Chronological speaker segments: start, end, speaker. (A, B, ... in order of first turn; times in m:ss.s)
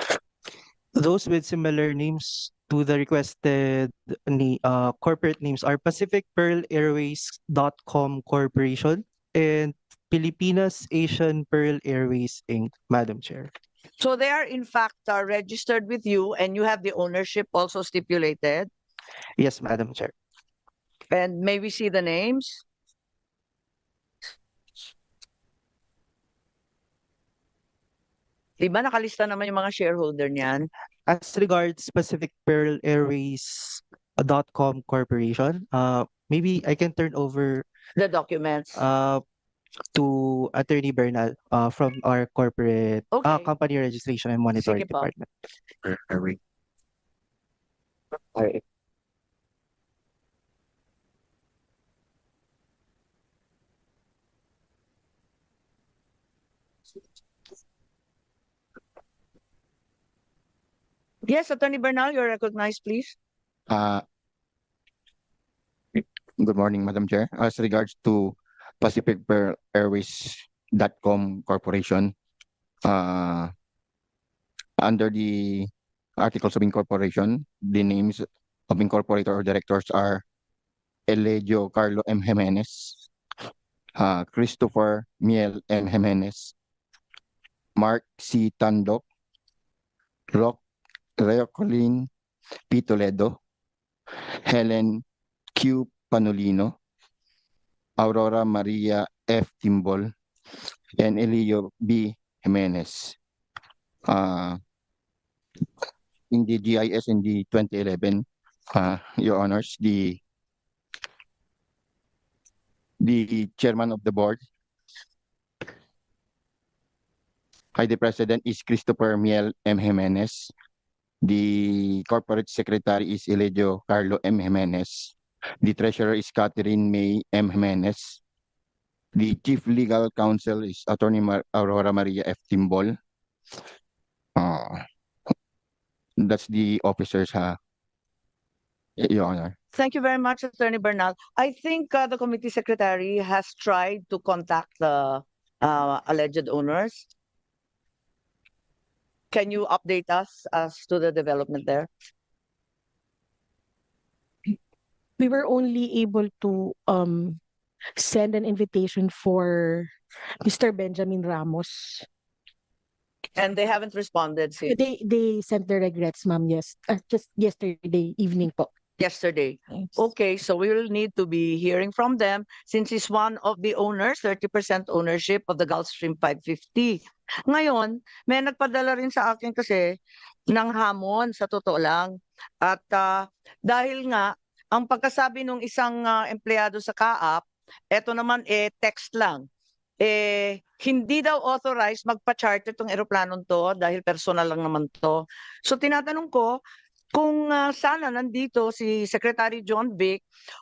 0:01.0-0:13.5 A
0:14.0-0:18.7 B
0:19.4-0:20.1 A
0:21.1-0:22.6 B
0:28.6-0:30.7 B
0:31.1-0:37.6 A
0:38.0-0:38.8 B
0:38.8-0:39.2 A
0:39.9-0:45.3 A
0:43.1-0:43.5 B
0:44.6-0:45.1 B
1:01.2-1:03.2 B
1:03.7-1:04.0 C
1:05.9-1:12.1 C
1:12.8-1:13.5 C
1:14.8-1:20.2 C
1:21.1-1:23.1 C
1:24.0-1:26.5 C
1:27.8-1:29.0 C
1:30.3-1:30.6 C
1:31.2-1:32.1 C
1:32.7-1:33.4 C
1:34.4-1:35.0 C
1:35.6-1:36.8 C
1:38.0-1:40.1 C
1:41.0-1:43.2 C
1:44.1-1:44.6 C
1:46.3-1:50.2 C
1:53.0-1:54.4 C
1:57.8-2:00.5 C
2:01.2-2:08.2 C
2:09.1-2:13.0 C
2:14.4-2:14.8 C
2:16.2-2:17.6 C
2:19.0-2:19.5 C
2:19.7-2:27.1 B
2:29.3-2:31.9 B
2:35.2-2:37.4 D
2:38.0-2:39.9 D
2:40.4-2:42.0 D
2:43.4-2:44.8 B
2:44.7-2:48.7 D
2:49.0-2:59.9 B
3:00.5-3:09.4 B
3:10.0-3:16.6 B
3:17.1-3:20.2 B